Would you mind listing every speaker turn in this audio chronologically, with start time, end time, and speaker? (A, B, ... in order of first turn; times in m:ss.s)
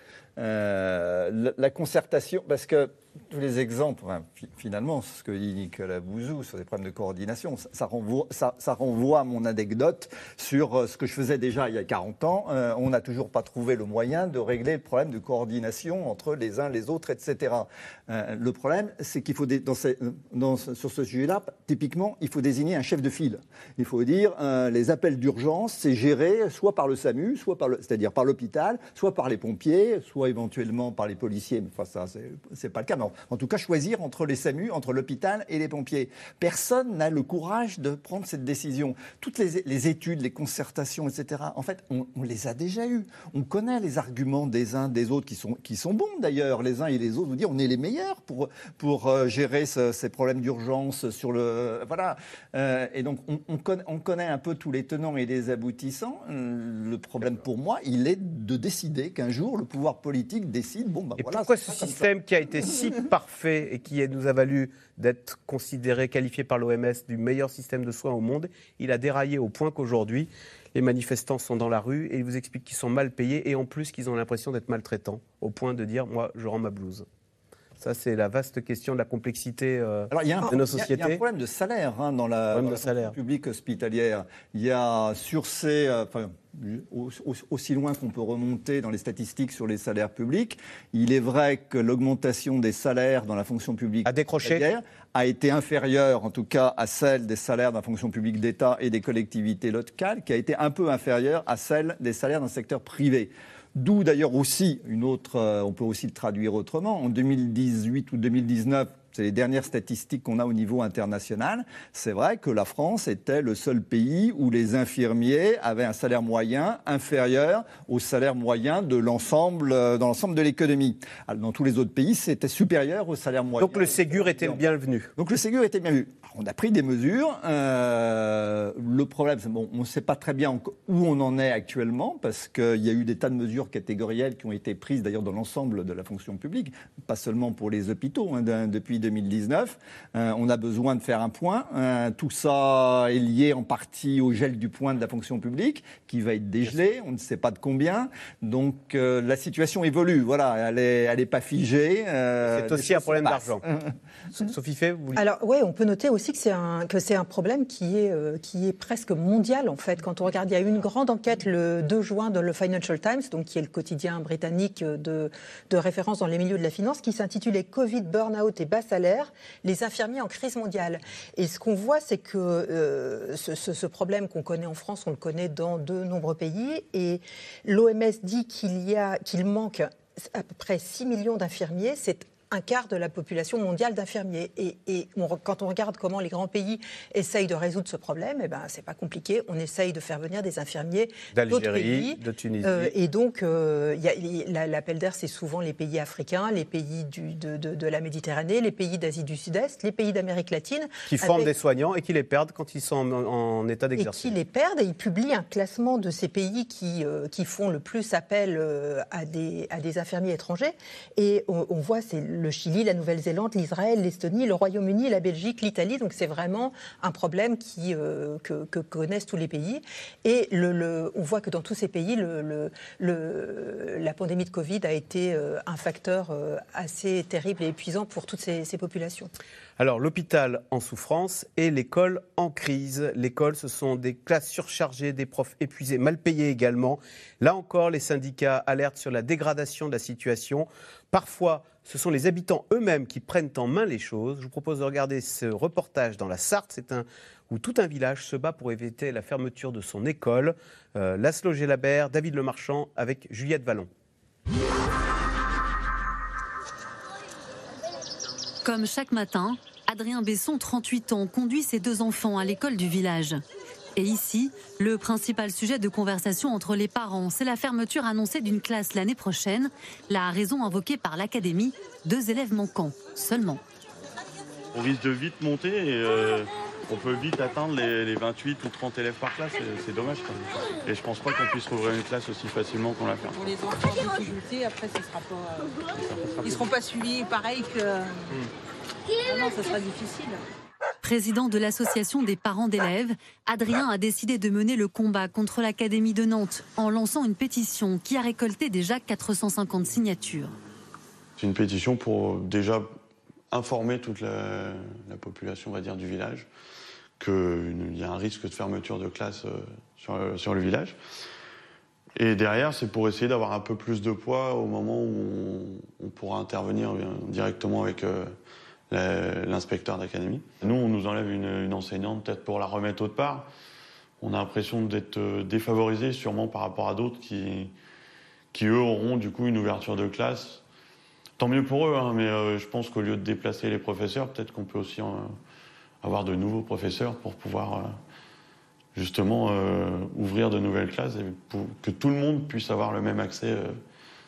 0:00.4-1:02.7 A
1:01.2-1:17.0 B
1:17.8-1:21.2 B
1:20.1-2:04.6 A
1:22.5-1:23.2 B
1:34.1-1:34.6 B
2:03.6-2:05.1 B
2:05.2-2:33.9 A
2:32.4-2:33.6 B
2:34.4-2:35.2 B
2:35.2-3:21.5 C
3:11.3-3:12.9 B
3:21.1-3:24.4 B
3:24.0-3:49.3 C
3:49.8-4:13.9 B
4:18.6-4:23.4 D
4:24.0-4:33.6 D
4:34.7-4:43.4 E
4:43.3-4:45.8 F
4:46.4-4:48.4 F
4:49.2-4:50.4 F
4:51.0-5:00.5 D
5:01.4-5:02.9 E
5:03.5-5:06.5 E
5:07.2-5:11.0 E
5:12.2-5:18.4 E
5:18.9-5:23.5 E
5:24.2-5:27.7 E
5:28.5-5:30.6 E
5:31.4-5:35.4 E
5:36.0-5:38.0 E
5:39.0-5:43.8 E